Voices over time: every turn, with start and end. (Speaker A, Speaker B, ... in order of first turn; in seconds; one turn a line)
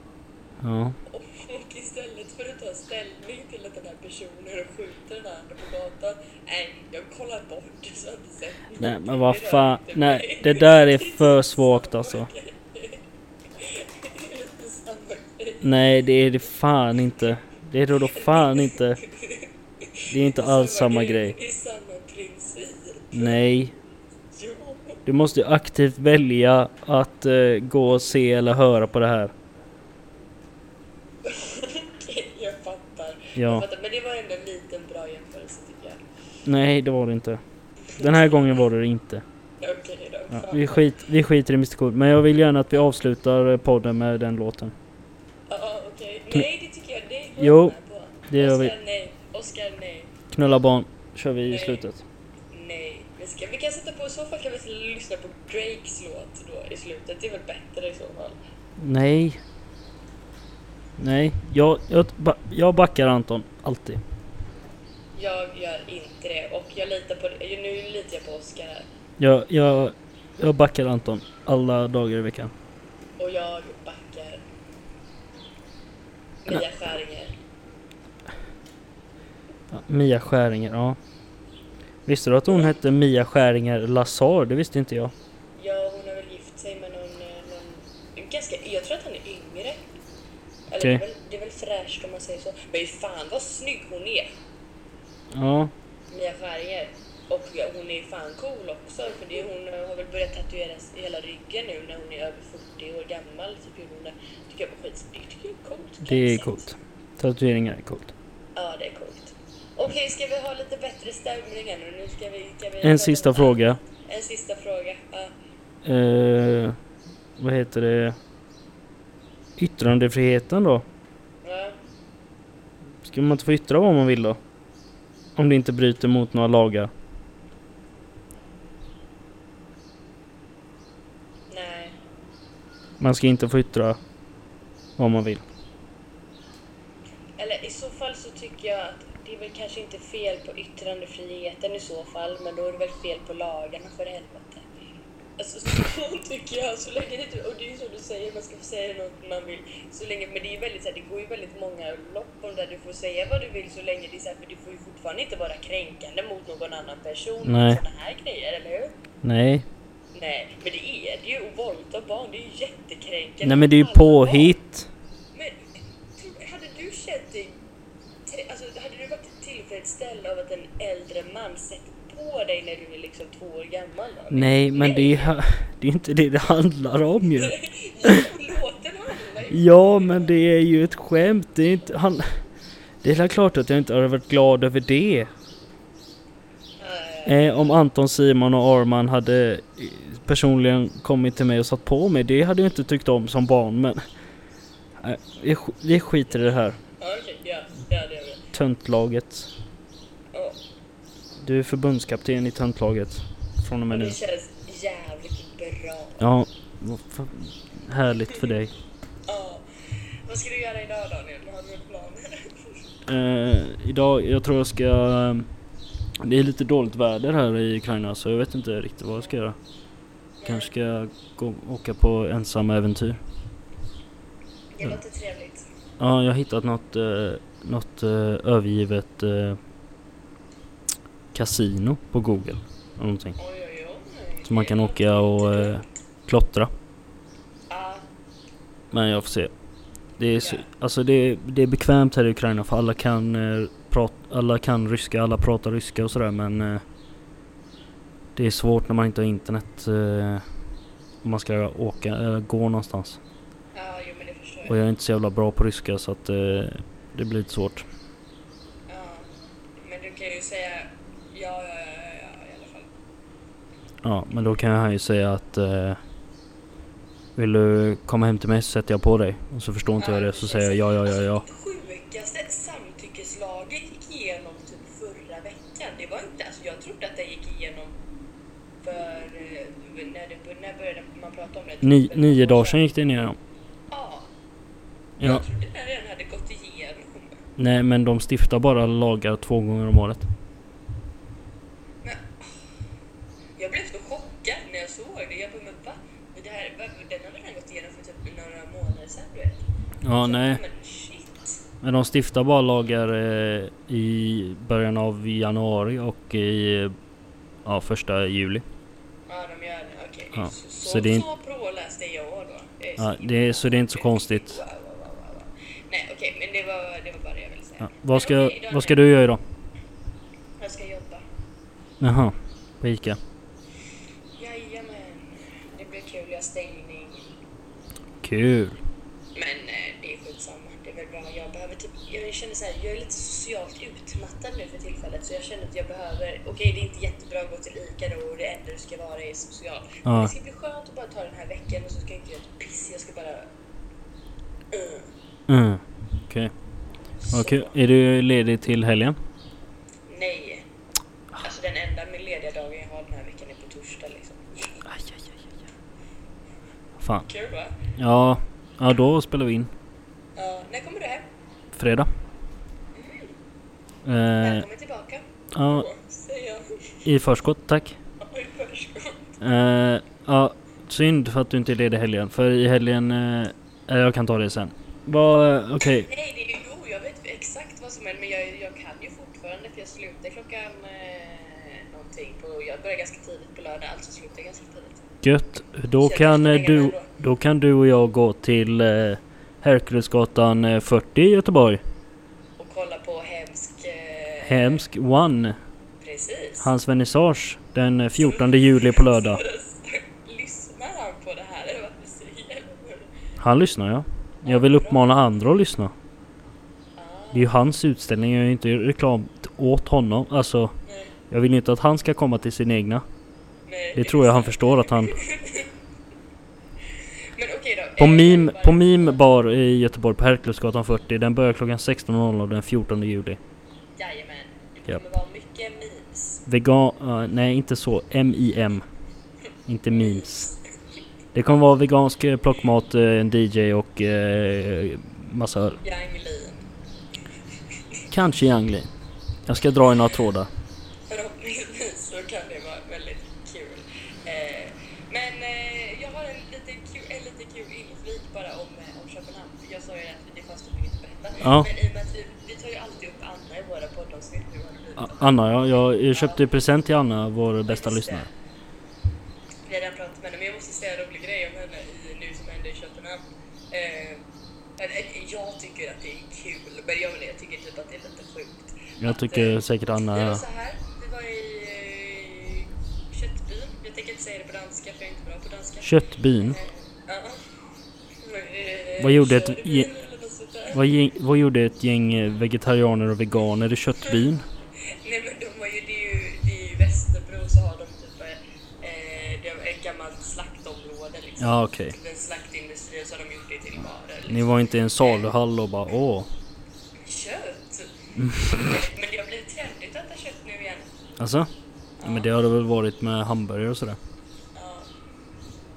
Speaker A: 0.6-1.0
Speaker B: 1.0-15.8
Speaker A: 8.8-12.3
Speaker A: 15.6-19.0
Speaker B: 18.1-23.4
Speaker A: 20.1-21.4
Speaker A: 23.1-23.7
Speaker B: 24.3-25.0
Speaker A: 25.1-29.3
Speaker B: 31.2-36.0
Speaker A: 33.4-33.6
Speaker A: 36.4-37.4
Speaker A: 37.9-39.2
Speaker B: 38.0-38.3
Speaker B: 39.6-40.8
Speaker A: 40.3-44.7
Speaker B: 45.5-50.1
Speaker A: 47.4-47.7
Speaker A: 48.3-48.7
Speaker A: 50.3-52.0
Speaker B: 51.5-51.8
Speaker B: 52.5-58.4
Speaker A: 58.8-59.4
Speaker A: 61.0-64.0
Speaker B: 65.1-68.9
Speaker A: 69.2-72.5
Speaker B: 73.2-74.4
Speaker B: 76.4-77.3
Speaker A: 79.7-81.0
Speaker A: 82.0-85.1
Speaker B: 85.6-89.8
Speaker B: 90.7-94.3
Speaker A: 95.3-95.7
Speaker B: 96.1-106.6
Speaker A: 106.0-108.1
Speaker B: 108.5-115.3
Speaker A: 112.8-113.8
Speaker A: 115.8-116.8
Speaker A: 117.4-118.2
Speaker A: 119.6-120.8
Speaker B: 121.4-121.8
Speaker A: 123.0-124.4
Speaker A: 125.3-126.9
Speaker B: 131.5-132.0
Speaker A: 133.0-134.0
Speaker A: 135.0-135.4
Speaker B: 137.4-144.6
Speaker B: 145.4-158.9
Speaker A: 157.4-157.8
Speaker A: 159.2-159.7
Speaker B: 160.1-164.6
Speaker A: 163.4-164.9
Speaker B: 165.3-167.6
Speaker B: 168.2-175.3
Speaker A: 174.3-178.2
Speaker B: 177.3-180.3
Speaker A: 179.5-182.3
Speaker A: 183.0-185.3
Speaker B: 186.8-187.5
Speaker A: 187.2-194.0
Speaker A: 195.0-196.8
Speaker B: 197.0-198.4
Speaker A: 198.5-199.5
Speaker B: 200.3-200.6
Speaker A: 201.4-204.2
Speaker B: 203.9-206.3
Speaker A: 206.2-208.7
Speaker B: 209.2-209.6
Speaker B: 210.2-212.8
Speaker A: 213.1-215.5
Speaker A: 216.2-219.6
Speaker B: 220.4-220.7
Speaker A: 220.4-223.2
Speaker B: 224.7-225.7
Speaker A: 226.0-229.6
Speaker A: 231.3-233.4
Speaker B: 233.4-235.9
Speaker A: 234.4-236.7
Speaker B: 237.7-238.1
Speaker A: 238.9-239.5
Speaker A: 240.2-246.8
Speaker B: 240.4-240.6
Speaker A: 248.3-250.4
Speaker A: 251.2-253.2
Speaker B: 253.7-254.8
Speaker A: 254.7-257.8
Speaker B: 258.9-259.3
Speaker B: 259.8-262.9
Speaker A: 264.0-266.0
Speaker A: 267.4-271.4
Speaker B: 270.0-277.9
Speaker B: 278.8-282.8
Speaker A: 281.8-283.4
Speaker B: 283.9-284.3
Speaker B: 285.2-287.4
Speaker A: 287.6-290.3
Speaker B: 292.0-292.7
Speaker B: 293.6-299.6
Speaker A: 300.0-300.6
Speaker B: 300.1-301.6
Speaker A: 301.8-306.9
Speaker A: 307.6-308.6
Speaker B: 309.3-319.0
Speaker A: 310.4-311.2
Speaker A: 313.0-314.6
Speaker A: 317.8-319.4
Speaker B: 320.6-321.2
Speaker A: 322.0-323.2
Speaker B: 324.4-327.3
Speaker A: 328.2-328.8
Speaker B: 329.3-343.5
Speaker A: 340.0-340.3
Speaker B: 344.7-345.1
Speaker A: 345.5-346.5
Speaker B: 347.2-347.7
Speaker A: 347.3-349.2
Speaker B: 350.1-350.6
Speaker B: 351.4-354.8
Speaker A: 354.9-355.3
Speaker A: 357.0-357.3
Speaker B: 357.2-357.8
Speaker A: 357.9-359.7
Speaker B: 360.4-361.2
Speaker A: 361.7-362.1
Speaker B: 362.9-363.3
Speaker A: 364.0-364.6
Speaker B: 364.4-367.0
Speaker A: 365.5-365.9
Speaker A: 367.0-368.0
Speaker B: 368.2-369.3
Speaker A: 369.4-376.1
Speaker B: 375.8-385.0
Speaker A: 385.2-391.8
Speaker B: 386.0-387.1
Speaker B: 392.6-394.8
Speaker A: 394.4-395.6
Speaker B: 396.0-396.7
Speaker A: 396.6-399.4
Speaker B: 398.2-403.1
Speaker A: 403.4-405.9
Speaker B: 404.4-405.1
Speaker B: 406.9-407.5
Speaker A: 407.3-410.7
Speaker B: 410.9-411.1
Speaker A: 411.3-413.0
Speaker B: 413.6-415.7
Speaker A: 413.9-415.1
Speaker B: 416.9-419.2
Speaker A: 418.0-423.4
Speaker B: 423.9-426.4
Speaker A: 426.5-428.8
Speaker A: 429.7-430.5
Speaker B: 429.9-430.6
Speaker A: 431.3-435.8
Speaker B: 435.8-436.6
Speaker B: 437.7-438.0
Speaker A: 438.1-438.9
Speaker A: 439.4-440.5
Speaker B: 441.1-455.5
Speaker A: 451.4-451.7
Speaker A: 455.0-458.3
Speaker B: 456.1-456.5
Speaker B: 457.7-458.3
Speaker B: 459.6-464.2
Speaker B: 464.8-477.5
Speaker A: 469.0-470.4
Speaker A: 475.8-476.6
Speaker B: 478.2-480.8
Speaker A: 479.0-479.9
Speaker A: 480.7-484.4
Speaker B: 484.8-495.3
Speaker A: 491.4-491.9
Speaker A: 494.3-496.3
Speaker B: 497.0-497.9
Speaker A: 498.1-498.7
Speaker B: 498.5-500.9
Speaker A: 501.2-501.5
Speaker B: 502.0-502.3
Speaker A: 502.0-504.0
Speaker B: 504.5-504.9